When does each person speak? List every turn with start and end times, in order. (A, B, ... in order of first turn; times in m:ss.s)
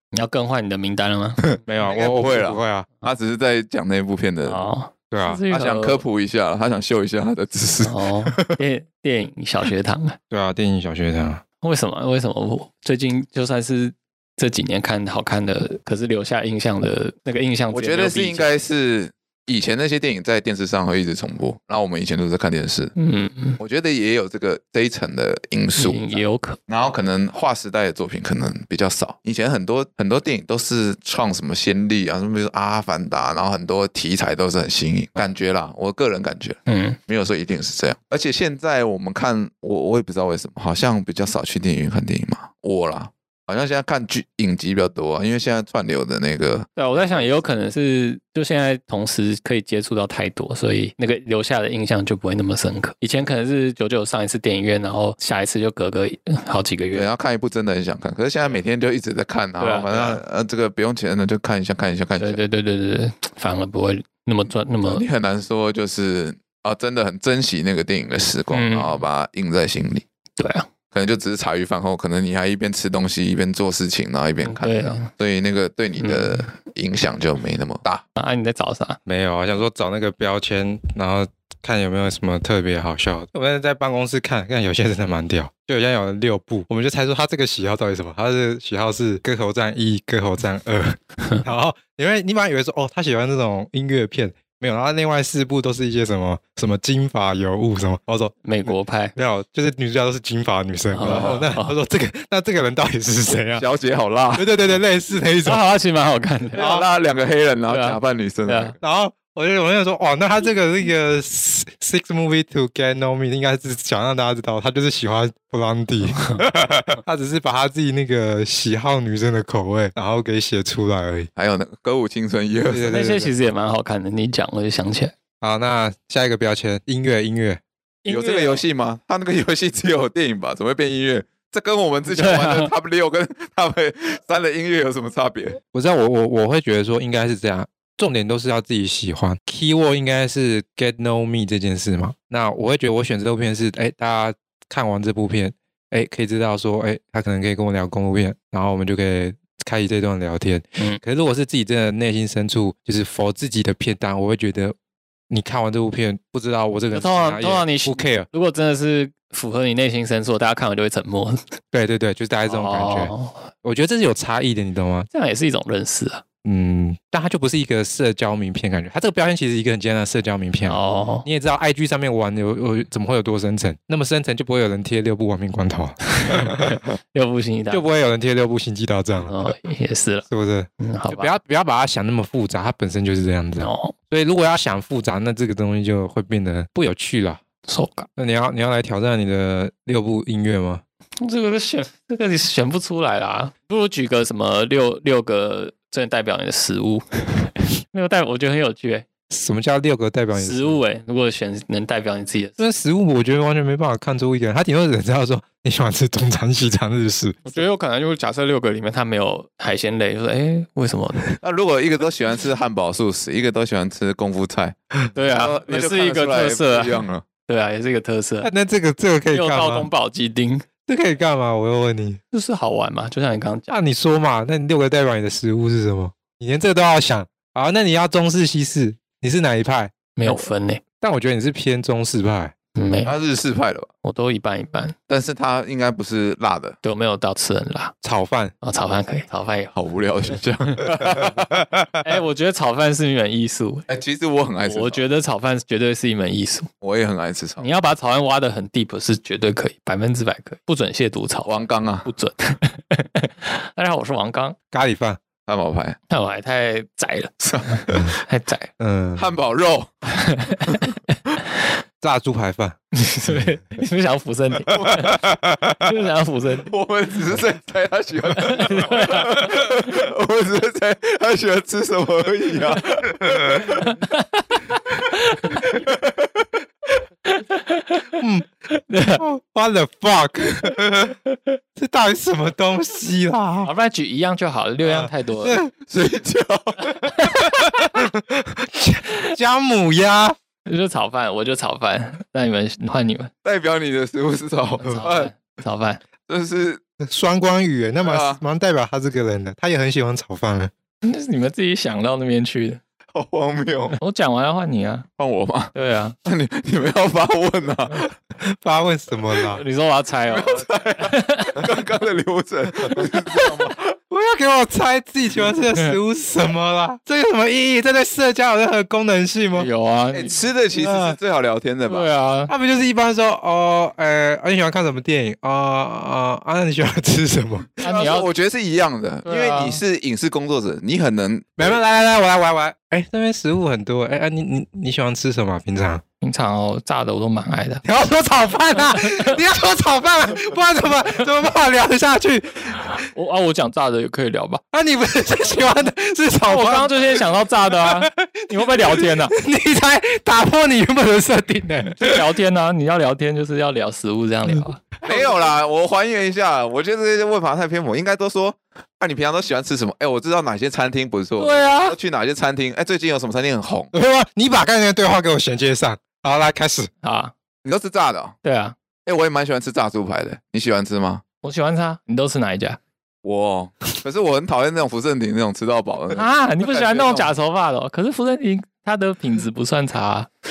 0:00.1-0:01.4 A
0:01.6-0:02.9 B
0:01.8-0:04.6 C
0:04.5-0:06.0 A
0:05.1-0:05.4 B
0:05.5-0:08.6 C
0:07.8-0:10.2 A
0:10.3-0:11.4 B
0:11.6-0:18.5 A
0:17.7-0:22.9 C
0:23.0-0:23.6 A
0:23.6-0:47.3 C
0:25.8-0:26.6 A
0:36.7-0:37.0 A
0:46.8-0:57.1 A
0:56.9-1:02.4 C
0:59.6-1:00.2 A
1:02.2-1:05.0 A
1:04.8-1:10.0 C
1:08.5-1:09.0 A
1:10.4-1:10.7 A
1:10.9-1:18.0 C
1:14.4-1:15.1 A
1:16.0-1:16.4 A
1:18.2-1:19.0 A
1:19.0-1:43.6 B
1:38.4-1:39.2 A
1:40.9-1:41.7 A
1:41.0-1:41.4 C
1:43.6-1:44.5 C
1:44.3-1:45.6 B
1:45.4-1:46.6 A
1:46.5-1:48.8 C
1:46.6-1:46.8 B
1:47.7-1:48.7 A
1:48.8-1:56.4 B
1:56.6-1:56.9 C
1:57.0-2:01.3 B
2:01.4-2:02.9 C
2:02.7-2:03.3 B
2:02.9-2:05.1 A
2:05.4-2:07.6 B
2:08.0-2:08.6 A
2:08.1-2:15.6 C
2:12.1-2:12.7 A
2:15.7-2:34.7 B
2:35.3-2:38.3 B
2:36.9-2:41.5 A
2:41.7-2:43.1 B
2:42.4-2:43.5 A
2:43.6-2:45.1 B
2:45.1-2:46.2 A
2:46.4-2:56.7 B
2:50.6-2:51.2 A
2:56.2-2:57.8 A
2:57.7-2:59.5 B
2:59.2-3:00.3 A
3:00.3-3:07.4 B
3:00.8-3:01.3 A
3:03.6-3:03.9 A
3:07.6-3:08.1 A
3:08.2-3:10.8 B
3:11.2-3:19.0 A
3:19.3-3:20.8 B
3:20.3-3:22.6 A
3:22.6-3:27.6 B
3:27.4-3:31.3 A
3:31.4-3:34.8 C
3:35.1-3:38.5 A
3:35.4-3:37.2 C
3:38.4-3:39.9 B
3:39.3-3:40.6 A
3:40.8-3:42.2 B
3:42.3-3:43.7 A
3:43.7-3:50.4 B
3:50.2-3:50.8 A
3:51.0-3:52.5 B
3:52.7-3:53.1 A
3:53.0-3:53.9 C
3:54.0-3:54.9 A
3:55.1-3:56.8 C
3:56.8-3:57.9 A
3:58.0-3:58.5 B
3:58.6-3:59.7 A
3:59.7-4:02.0 C
4:00.9-4:01.2 A
4:02.0-4:03.9 A
4:03.9-4:05.0 C
4:04.6-4:06.7 A
4:06.8-4:07.6 C
4:07.6-4:14.6 A
4:11.4-4:12.1 C
4:14.7-4:15.2 B
4:15.5-4:16.0 C
4:16.1-4:18.7 A
4:17.4-4:18.1 C
4:18.8-4:19.2 B
4:19.2-4:20.0 C
4:20.1-4:20.8 A
4:22.0-4:22.8 B
4:22.9-4:25.2 A
4:24.7-4:25.9 C
4:25.8-4:26.7 A
4:26.7-4:33.9 C
4:28.4-4:29.7 A
4:33.8-4:35.7 A
4:35.8-4:36.4 C
4:37.2-4:38.2 A
4:38.2-4:38.5 B
4:38.7-4:39.2 A
4:39.2-4:41.1 B
4:41.8-4:43.7 B
4:43.6-4:45.6 A
4:44.8-4:45.7 B
4:45.8-4:47.5 C
4:47.5-4:50.4 B
4:50.6-4:53.3 A
4:53.4-4:55.3 C
4:54.8-4:56.0 A
4:56.3-4:56.8 C
4:57.0-5:00.7 B
4:58.0-4:58.4 C
5:01.0-5:02.8 A
5:03.1-5:04.0 C
5:04.0-5:05.0 A
5:05.2-5:05.7 C
5:05.7-5:06.1 A
5:06.2-5:08.1 C
5:08.4-5:09.6 B
5:09.5-5:11.6 A
5:10.3-5:13.9 C
5:13.0-5:13.5 A
5:14.1-5:19.7 B
5:19.5-5:20.4 A
5:20.1-5:22.1 C
5:20.8-5:21.2 B
5:21.9-5:22.5 A
5:22.5-5:27.7 B
5:27.8-5:31.8 C
5:27.8-5:28.3 A
5:29.2-5:29.8 A
5:31.6-5:36.0 B
5:36.2-5:37.8 A
5:37.8-5:43.0 B
5:38.9-5:39.3 A
5:43.0-5:44.6 A
5:44.7-5:52.2 B
5:46.5-5:49.3 A
5:52.0-5:55.4 A
5:55.0-6:03.9 C
6:01.4-6:02.0 A
6:03.9-6:06.9 B
6:07.0-6:07.3 A
6:07.6-6:08.4 C
6:08.4-6:08.8 A
6:09.0-6:11.2 C
6:11.4-6:12.8 A
6:13.2-6:17.3 C
6:16.1-6:20.3 A